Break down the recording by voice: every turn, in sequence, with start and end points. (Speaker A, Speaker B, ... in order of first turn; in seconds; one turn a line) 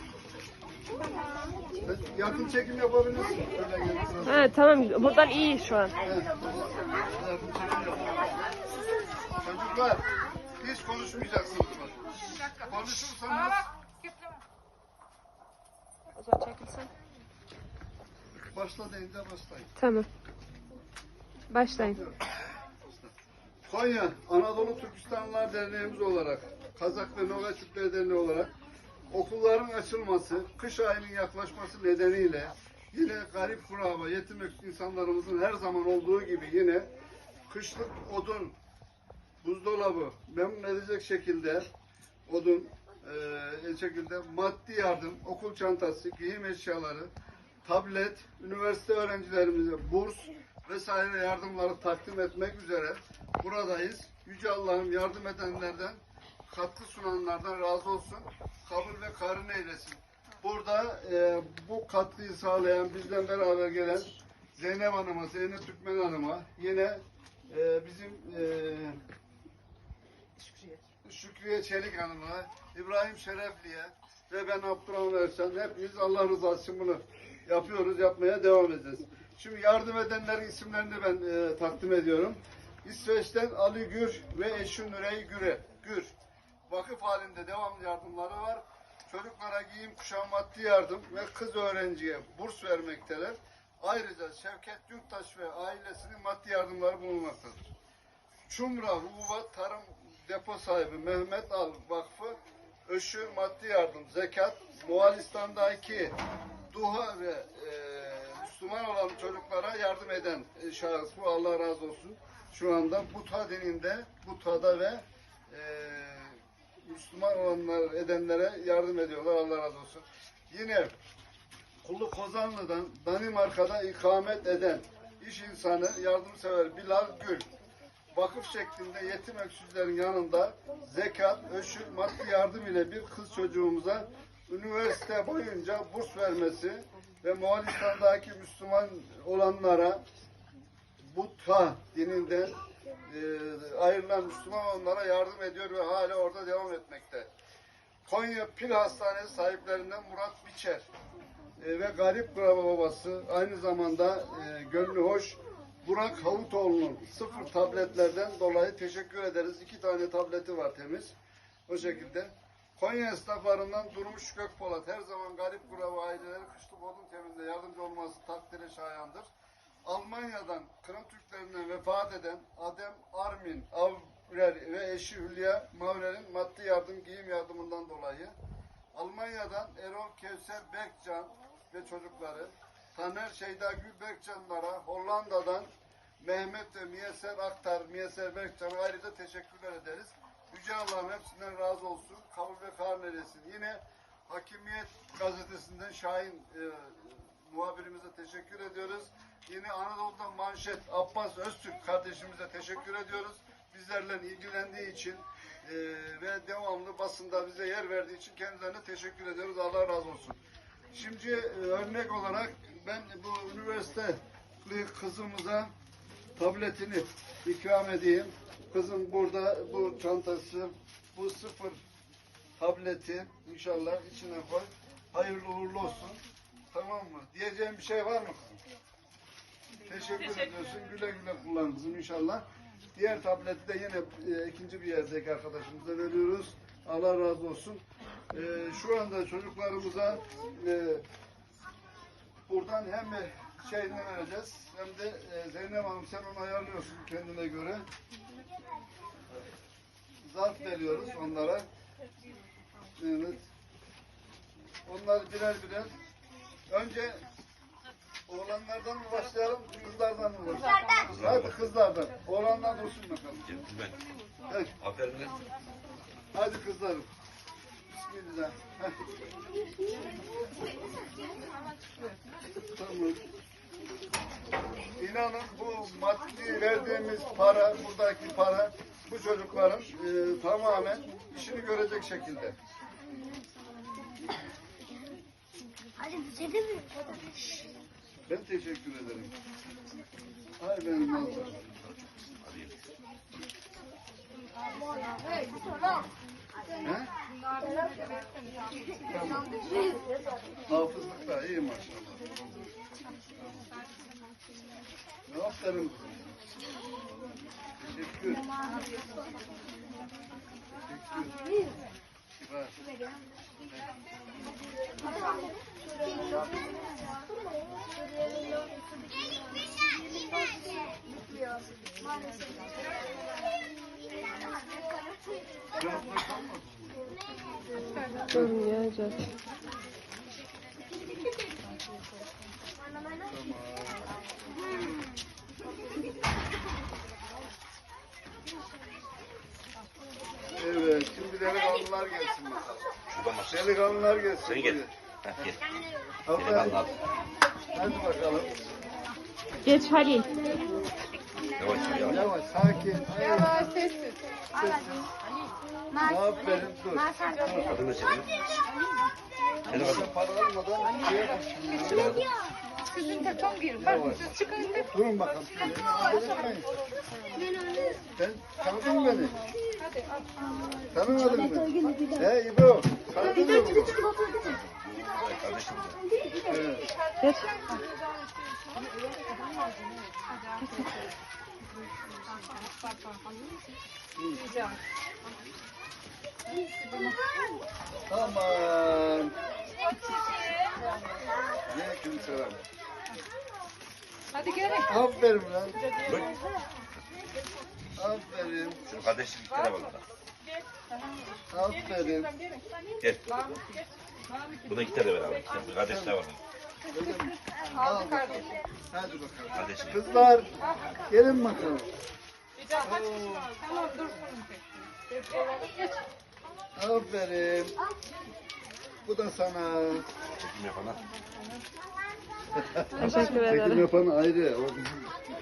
Speaker A: 1.8-4.5
Speaker B: 4.2-6.0
Speaker A: 6.0-8.5
Speaker A: 9.4-10.0
Speaker A: 10.6-13.7
Speaker C: 13.9-14.3
Speaker B: 16.1-16.9
Speaker A: 18.3-19.7
Speaker B: 19.8-20.1
Speaker B: 21.5-22.0
Speaker A: 21.7-22.2
Speaker A: 22.8-23.1
Speaker A: 23.6-28.5
Speaker A: 29.1-36.9
Speaker A: 37.5-38.5
Speaker A: 39.4-41.7
Speaker A: 42.3-47.1
Speaker A: 47.6-69.0
Speaker C: 70.4-70.7
Speaker A: 71.0-86.1
Speaker A: 86.7-97.7
Speaker A: 98.5-106.1
Speaker A: 106.7-120.9
Speaker A: 121.8-127.5
Speaker A: 128.1-140.0
Speaker A: 141.0-147.3
Speaker A: 148.0-150.8
Speaker A: 151.6-161.1
Speaker A: 161.7-169.3
Speaker A: 169.8-178.3
Speaker A: 178.9-185.7
Speaker A: 186.2-210.4
Speaker A: 210.9-215.7
Speaker A: 216.4-221.8
Speaker A: 222.6-226.2
Speaker A: 226.7-228.6
Speaker A: 229.8-232.4
Speaker A: 232.9-241.0
Speaker A: 242.5-247.8
Speaker A: 250.2-251.7
Speaker A: 253.0-253.4
Speaker A: 254.8-255.9
Speaker A: 256.7-257.2
Speaker A: 258.3-263.5
Speaker C: 260.8-261.1
Speaker D: 261.0-261.6
Speaker D: 263.5-264.0
Speaker D: 264.8-265.4
Speaker A: 266.3-267.1
Speaker A: 267.9-268.9
Speaker C: 271.8-272.3
Speaker A: 272.5-273.2
Speaker A: 275.0-282.6
Speaker E: 286.0-287.6
Speaker A: 288.3-289.3
Speaker A: 290.6-291.9
Speaker D: 292.4-292.8
Speaker C: 294.7-295.8
Speaker A: 296.8-297.1
Speaker C: 297.5-298.9
Speaker A: 299.1-299.6
Speaker E: 299.8-300.1
Speaker A: 300.7-302.6
Speaker A: 305.3-306.2
Speaker A: 307.8-308.5
Speaker A: 310.8-311.4
Speaker A: 312.4-312.8
Speaker E: 315.0-317.3
Speaker E: 318.0-322.7
Speaker A: 325.7-327.0
Speaker C: 327.8-328.3
Speaker B: 328.3-329.3
Speaker A: 333.3-334.9
Speaker A: 340.5-342.8
Speaker D: 343.1-345.6
Speaker A: 343.5-345.6
Speaker A: 346.2-346.8
Speaker D: 346.3-346.9
Speaker A: 347.7-348.6
Speaker B: 349.6-350.5
Speaker D: 351.6-352.3
Speaker A: 352.0-353.7
Speaker C: 353.4-354.2
Speaker A: 354.5-355.1
Speaker A: 356.0-357.8
Speaker E: 357.1-357.7
Speaker D: 357.6-358.4
Speaker A: 359.7-362.2
Speaker D: 359.7-360.1
Speaker D: 361.7-362.3
Speaker E: 361.8-362.6
Speaker C: 362.9-364.9
Speaker A: 363.8-366.7
Speaker C: 365.7-367.5
Speaker E: 367.4-368.0
Speaker A: 368.1-369.4
Speaker C: 369.8-370.3
Speaker E: 370.6-372.2
Speaker A: 370.9-374.0
Speaker E: 373.2-374.5
Speaker D: 374.3-376.0
Speaker E: 375.8-376.5
Speaker A: 376.5-376.9
Speaker C: 377.1-380.9
Speaker B: 377.2-377.6
Speaker C: 382.2-383.8
Speaker A: 384.1-384.4
Speaker C: 384.4-384.8
Speaker C: 386.5-387.2
Speaker A: 388.1-389.3
Speaker C: 389.7-391.2
Speaker A: 391.6-392.6
Speaker C: 394.3-394.9
Speaker A: 394.8-395.8
Speaker C: 395.8-396.3
Speaker D: 396.0-396.4
Speaker A: 398.0-398.8
Speaker D: 398.9-400.0
Speaker A: 401.5-402.3
Speaker D: 403.0-403.3
Speaker C: 403.3-403.9
Speaker D: 404.6-406.4
Speaker A: 405.8-406.1
Speaker A: 406.9-410.5
Speaker C: 407.8-408.4
Speaker D: 409.5-410.1
Speaker A: 411.1-411.9
Speaker C: 412.6-416.0
Speaker A: 412.8-413.5
Speaker A: 416.8-417.8
Speaker A: 419.0-420.1
Speaker D: 420.4-421.0
Speaker A: 422.5-425.1
Speaker B: 422.9-423.8